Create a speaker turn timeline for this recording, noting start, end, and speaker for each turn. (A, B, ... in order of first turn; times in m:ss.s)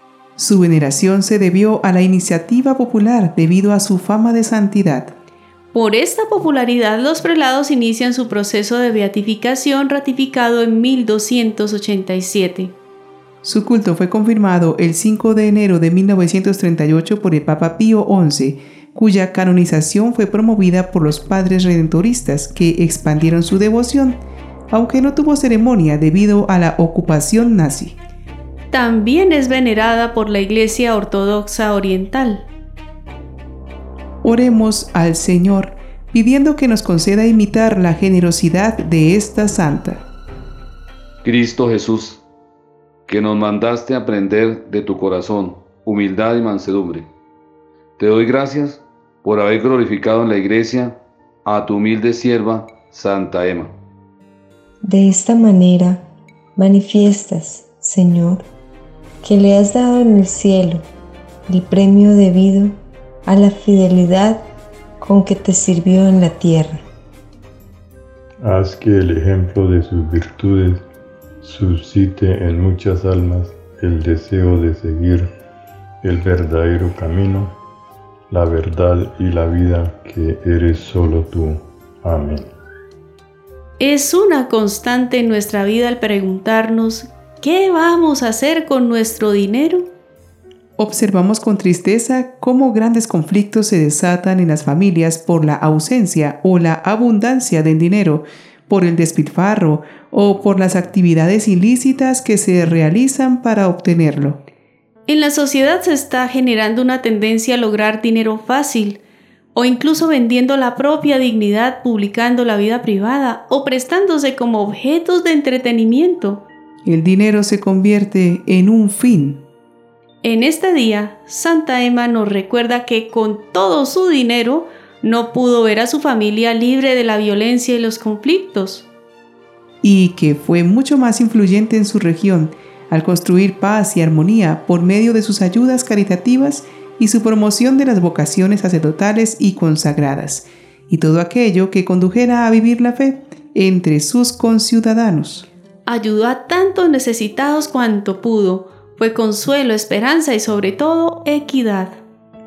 0:00.4-0:05.1 A
0:05.7-0:12.7 B
0:13.4-0:24.2 A
0:24.7-0:28.0 A
0:28.7-0:32.5 B
0:34.2-0:40.0 A
0:41.2-0:42.2 C
0:43.1-0:47.1 C
0:48.0-0:53.7 C
0:54.8-0:56.0 D
0:56.6-0:58.4 D
0:59.2-1:00.8 D
1:01.5-1:02.8 D
1:03.3-1:04.4 D
1:05.0-1:06.8 D
1:08.4-1:10.8 E
1:11.4-1:15.3 E
1:16.0-1:17.5 E
1:18.3-1:22.5 E
1:23.8-1:29.9 B
1:30.8-1:44.4 A
1:45.1-1:49.0 B
1:49.5-1:56.4 B
1:56.8-1:59.4 A
2:00.2-2:08.8 B
2:09.8-2:25.5 A
2:25.9-2:32.0 B